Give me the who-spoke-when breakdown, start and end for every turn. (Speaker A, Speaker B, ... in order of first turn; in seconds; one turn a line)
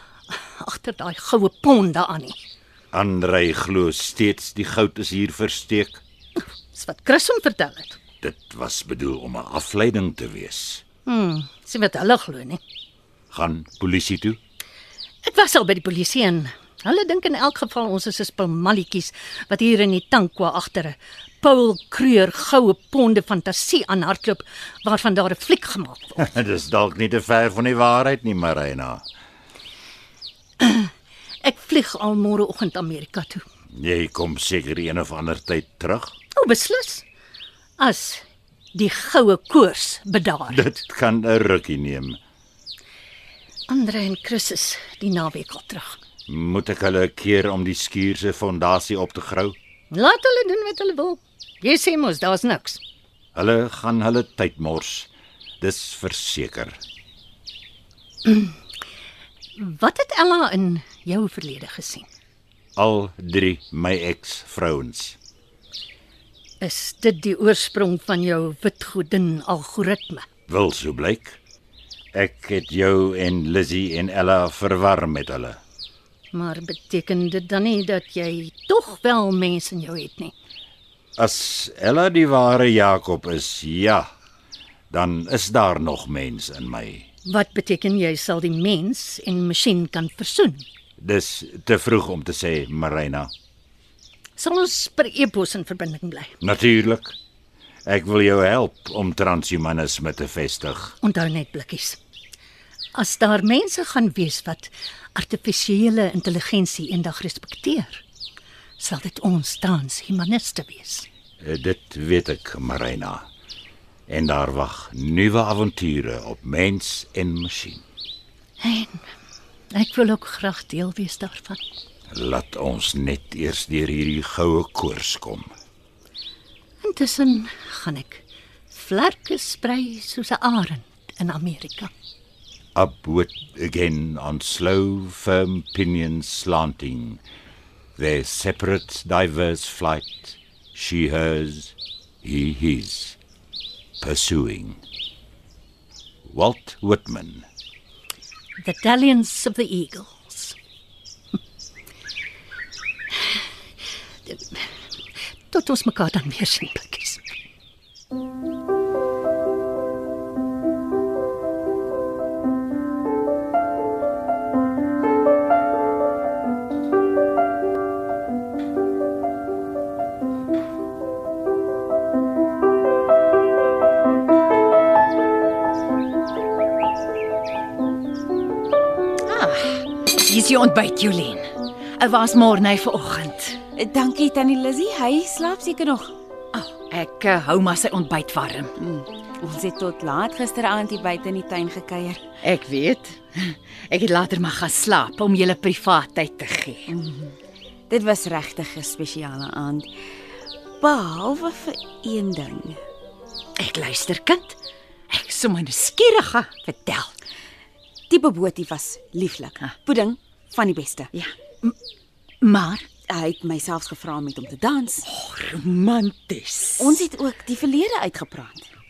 Speaker A: 0.3-2.4
Speaker B: 2.9-6.0
Speaker A: 6.7-8.0
Speaker B: 8.2-10.8
Speaker A: 11.0-12.6
Speaker B: 13.3-14.4
Speaker A: 15.2-26.2
Speaker B: 26.2-29.0
Speaker A: 30.6-30.9
Speaker A: 31.4-33.4
Speaker B: 33.8-36.1
Speaker A: 36.4-37.0
Speaker A: 37.8-38.2
Speaker A: 38.7-40.6
Speaker B: 40.5-42.2
Speaker A: 43.7-46.0
Speaker B: 46.3-49.5
Speaker A: 49.9-52.8
Speaker B: 53.3-55.1
Speaker B: 55.6-56.8
Speaker A: 58.2-58.6
Speaker A: 59.6-62.1
Speaker B: 62.8-65.2
Speaker A: 66.6-70.2
Speaker B: 70.5-71.4
Speaker B: 72.1-75.6
Speaker A: 76.3-80.3
Speaker B: 81.2-84.1
Speaker B: 84.9-87.1
Speaker A: 87.2-90.6
Speaker B: 91.0-93.3
Speaker A: 94.4-96.3
Speaker B: 96.4-97.2
Speaker B: 97.8-100.9
Speaker A: 101.0-102.0
Speaker A: 102.9-108.0
Speaker A: 108.8-111.0
Speaker B: 111.4-113.2
Speaker B: 114.1-117.8
Speaker A: 118.6-119.0
Speaker A: 119.7-121.6
Speaker B: 122.1-125.5
Speaker A: 126.8-131.9
Speaker B: 132.7-137.2
Speaker B: 138.0-143.2
Speaker B: 144.0-144.8
Speaker B: 146.2-147.4
Speaker A: 148.6-150.6
Speaker A: 154.3-154.6
Speaker A: 155.5-157.2
Speaker C: 179.2-183.6
Speaker D: 183.8-186.1
Speaker C: 186.5-188.8
Speaker D: 188.8-192.2
Speaker C: 192.4-196.9
Speaker D: 196.9-197.3
Speaker D: 197.9-199.9
Speaker D: 200.8-202.8
Speaker C: 203.6-204.6
Speaker C: 205.1-207.1
Speaker D: 208.1-211.1
Speaker C: 211.1-211.7
Speaker C: 212.4-213.0
Speaker D: 213.1-215.0
Speaker C: 215.1-217.1
Speaker D: 216.8-218.7